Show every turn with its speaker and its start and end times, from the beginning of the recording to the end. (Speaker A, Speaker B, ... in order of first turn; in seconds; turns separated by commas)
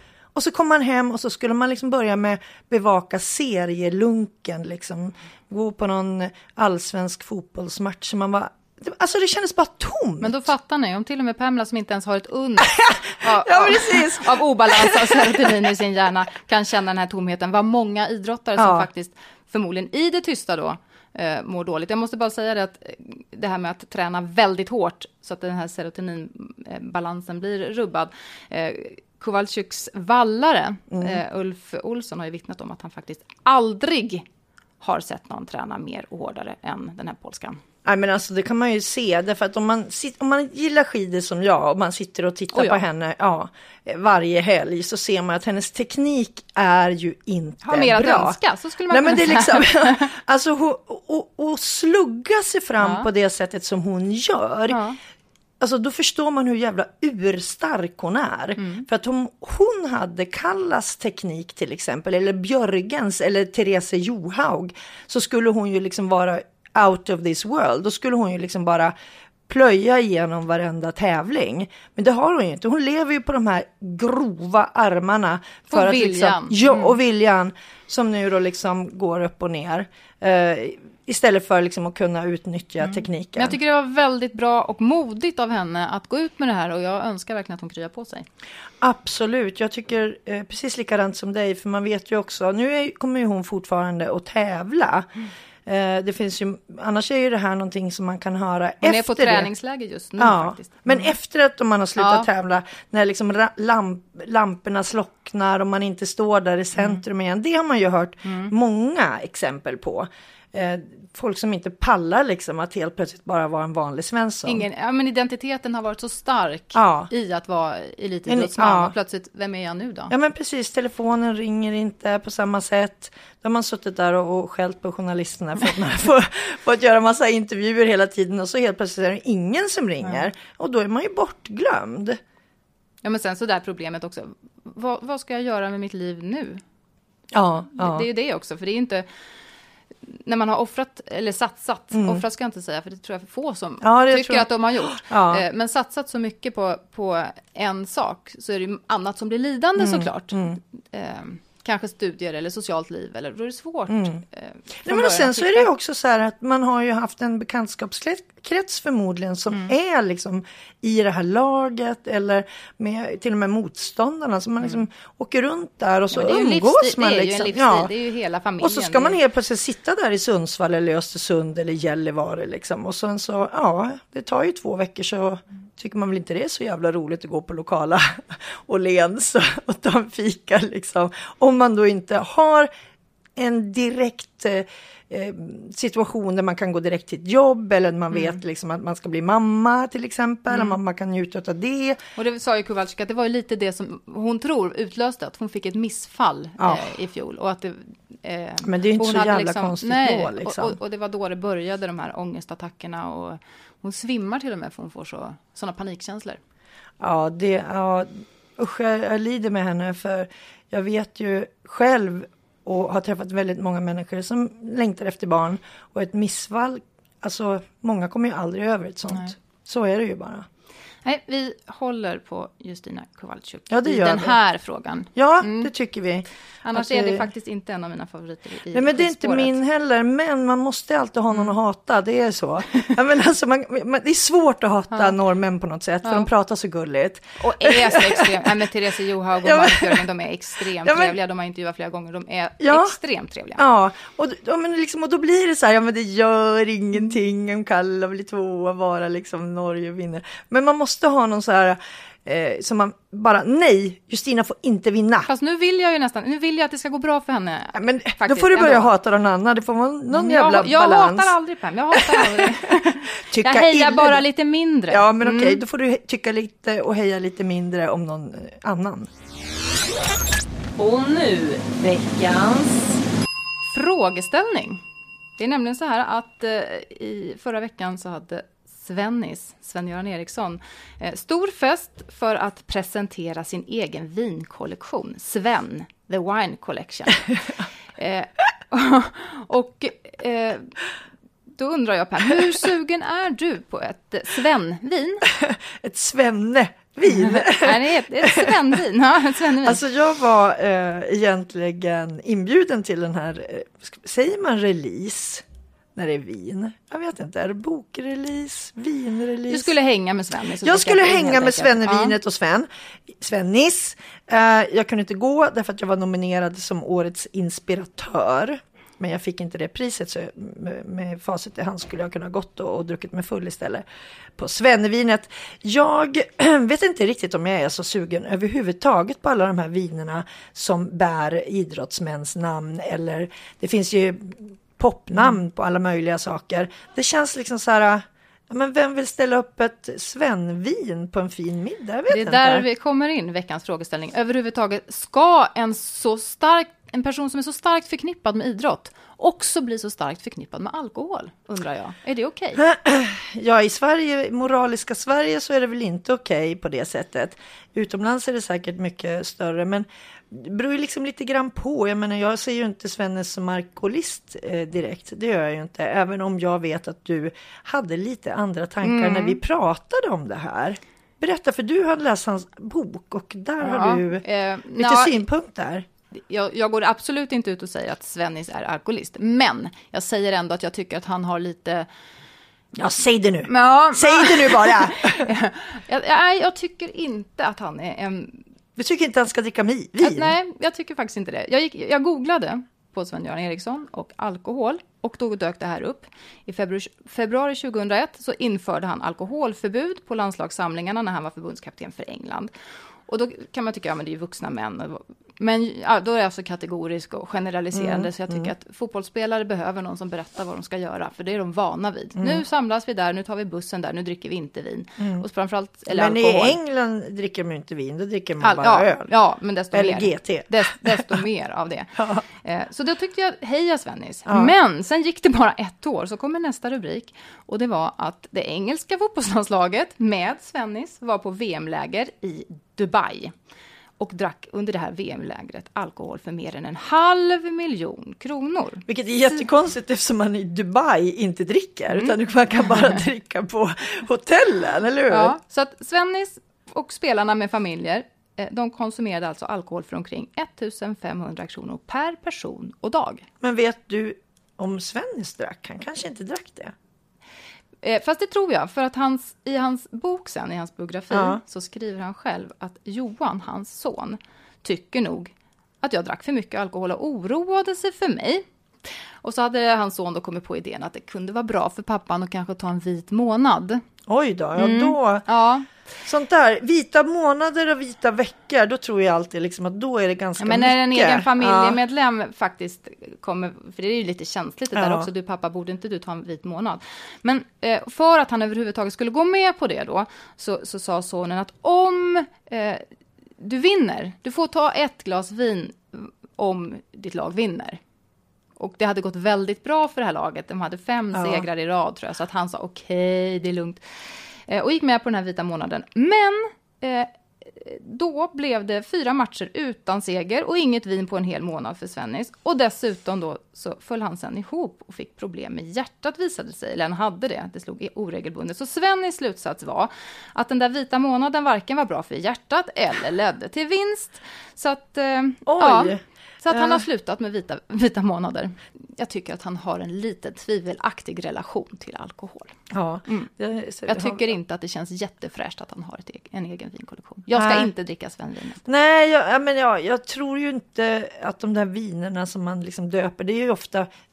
Speaker A: 0.3-10.5, Speaker B: 10.2-34.2, Speaker A: 12.7-15.4, Speaker A: 18.6-18.9, Speaker A: 30.9-31.2, Speaker B: 34.8-37.6, Speaker A: 37.8-48.4, Speaker B: 42.5-42.8, Speaker B: 47.6-50.1, Speaker A: 48.9-54.8, Speaker B: 52.8-53.1, Speaker B: 54.7-55.0, Speaker A: 55.6-68.9, Speaker B: 58.6-58.9, Speaker A: 69.5-83.6, Speaker B: 75.7-77.0, Speaker B: 82.8-88.3, Speaker A: 88.8-95.1, Speaker A: 95.7-99.5, Speaker B: 98.8-101.1, Speaker A: 100.2-114.6, Speaker B: 102.0-102.3, Speaker B: 106.8-107.0, Speaker B: 108.2-108.5, Speaker B: 114.4-120.1, Speaker A: 116.7-117.1, Speaker A: 118.3-118.9, Speaker A: 120.1-132.2, Speaker B: 133.0-136.6, Speaker A: 137.3-138.1, Speaker B: 137.8-139.1, Speaker B: 140.1-155.7, Speaker A: 141.9-142.2, Speaker A: 143.8-145.4, Speaker A: 149.8-150.6, Speaker A: 153.9-154.2, Speaker A: 154.8-167.9, Speaker B: 166.1-169.2, Speaker A: 168.6-182.7, Speaker A: 183.3-192.0, Speaker B: 188.1-188.4, Speaker B: 190.5-190.8, Speaker B: 192.2-206.4, Speaker A: 196.6-196.9, Speaker A: 198.6-200.8, Speaker A: 207.0-220.5, Speaker B: 221.0-225.7, Speaker A: 223.7-224.4, Speaker A: 225.1-227.3, Speaker B: 226.6-229.6, Speaker A: 228.7-238.5, Speaker B: 236.0-236.3, Speaker B: 237.4-243.6, Speaker A: 239.4-240.0, Speaker A: 240.8-241.2, Speaker A: 242.6-242.9, Speaker A: 243.6-255.3, Speaker B: 255.3-258.9, Speaker A: 257.7-261.3, Speaker B: 260.1-265.6, Speaker A: 261.9-264.2, Speaker A: 264.9-269.1, Speaker C: 270.8-272.9, Speaker B: 273.7-274.8, Speaker B: 275.4-287.3, Speaker B: 287.9-290.8, Speaker B: 291.5-295.3, Speaker A: 295.3-298.5, Speaker B: 297.1-299.8, Speaker A: 299.6-305.4, Speaker A: 305.9-309.7, Speaker B: 309.5-312.1, Speaker A: 310.6-323.8, Speaker A: 324.4-342.6, Speaker B: 342.1-352.6, Speaker A: 352.6-374.2, Speaker B: 368.8-369.4, Speaker B: 373.6-375.2, Speaker A: 374.8-375.9, Speaker B: 376.1-381.9, Speaker A: 382.8-385.3, Speaker B: 383.5-388.4, Speaker A: 388.8-390.3, Speaker B: 390.0-402.5, Speaker B: 403.1-416.6, Speaker A: 407.7-408.5, Speaker A: 412.2-412.4, Speaker A: 415.0-415.2, Speaker A: 415.9-419.1, Speaker B: 418.4-433.3, Speaker A: 419.7-421.1, Speaker A: 421.9-422.2, Speaker A: 424.3-424.5, Speaker B: 434.0-438.8, Speaker A: 438.9-445.4, Speaker B: 445.1-453.2, Speaker A: 453.4-456.7, Speaker B: 457.8-468.4, Speaker A: 461.1-461.4, Speaker B: 469.2-473.8, Speaker A: 474.1-475.2, Speaker B: 474.6-475.7, Speaker A: 476.0-481.8, Speaker B: 480.4-492.9, Speaker A: 484.7-485.1, Speaker B: 493.4-497.8, Speaker B: 498.6-503.8, Speaker A: 501.1-501.5, Speaker B: 504.5-532.5, Speaker A: 525.5-526.8, Speaker A: 532.7-534.2, Speaker B: 533.9-538.6, Speaker A: 537.3-537.7, Speaker A: 538.6-543.9